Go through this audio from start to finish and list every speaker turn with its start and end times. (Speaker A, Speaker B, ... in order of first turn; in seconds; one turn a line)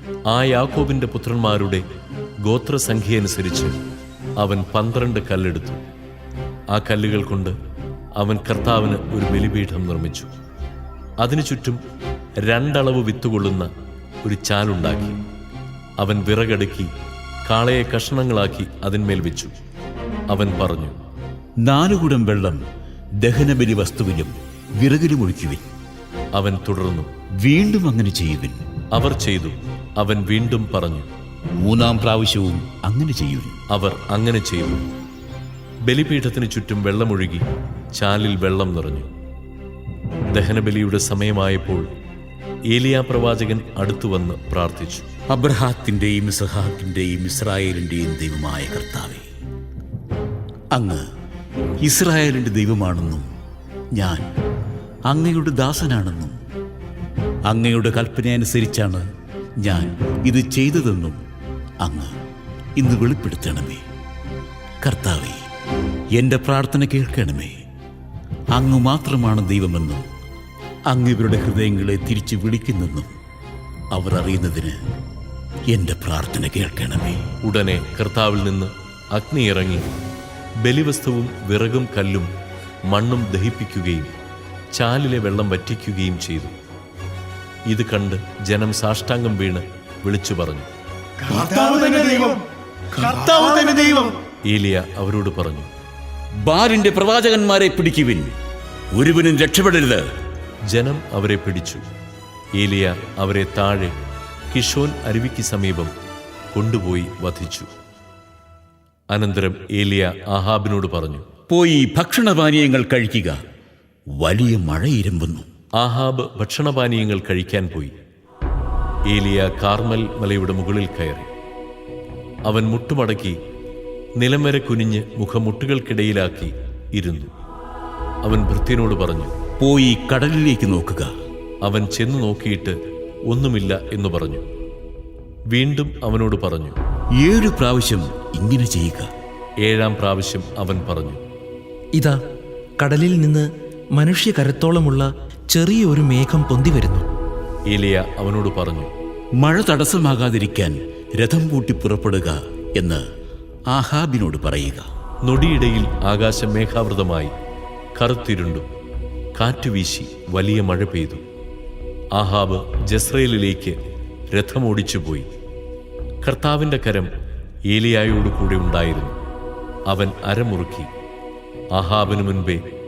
Speaker A: 0.3-1.8
Speaker A: 2.4-3.8
Speaker A: 4.4-5.8
Speaker A: 6.7-7.5
Speaker A: 8.2-10.3
Speaker A: 11.2-11.8
Speaker A: 12.4-13.7
Speaker A: 14.2-15.2
Speaker A: 16.0-16.9
Speaker A: 17.5-19.5
Speaker A: 20.3-20.9
Speaker B: 21.6-22.6
Speaker B: 23.2-25.7
Speaker A: 26.4-27.1
Speaker B: 27.4-28.6
Speaker A: 28.9-31.1
Speaker B: 31.6-33.6
Speaker A: 33.7-34.9
Speaker A: 35.9-37.5
Speaker A: 38.0-39.1
Speaker A: 40.3-41.9
Speaker A: 42.7-45.1
Speaker B: 45.3-49.3
Speaker B: 50.7-51.0
Speaker B: 51.8-53.3
Speaker B: 54.0-54.3
Speaker B: 55.1-56.4
Speaker B: 57.5-59.0
Speaker B: 59.6-61.2
Speaker B: 61.8-62.1
Speaker B: 62.8-63.8
Speaker B: 64.8-65.4
Speaker B: 66.1-67.5
Speaker B: 68.5-70.1
Speaker B: 70.9-73.1
Speaker B: 74.0-74.8
Speaker B: 75.7-77.2
Speaker A: 77.4-79.9
Speaker A: 80.6-82.3
Speaker A: 82.9-84.1
Speaker A: 84.8-86.5
Speaker A: 87.7-90.7
Speaker B: 91.3-92.4
Speaker B: 93.0-94.2
Speaker A: 94.5-95.7
Speaker B: 96.4-98.3
Speaker B: 98.9-100.1
Speaker A: 100.7-101.8
Speaker A: 102.6-103.9
Speaker A: 104.5-105.9
Speaker A: 106.5-107.7
Speaker A: 109.1-111.3
Speaker B: 111.5-113.4
Speaker B: 114.2-115.5
Speaker A: 115.8-117.9
Speaker A: 119.1-121.3
Speaker A: 122.5-123.4
Speaker A: 124.2-127.3
Speaker A: 128.2-129.3
Speaker B: 129.6-131.1
Speaker A: 131.6-132.8
Speaker A: 133.3-134.4
Speaker A: 135.5-136.8
Speaker B: 137.2-139.1
Speaker A: 139.6-141.2
Speaker C: 142.8-147.1
Speaker A: 147.7-148.9
Speaker B: 149.4-153.0
Speaker B: 153.7-154.8
Speaker A: 155.2-157.3
Speaker A: 158.0-158.7
Speaker A: 159.4-161.2
Speaker A: 162.2-163.8
Speaker A: 164.3-165.3
Speaker A: 166.2-167.1
Speaker A: 167.7-169.2
Speaker A: 169.9-170.9
Speaker A: 171.8-172.6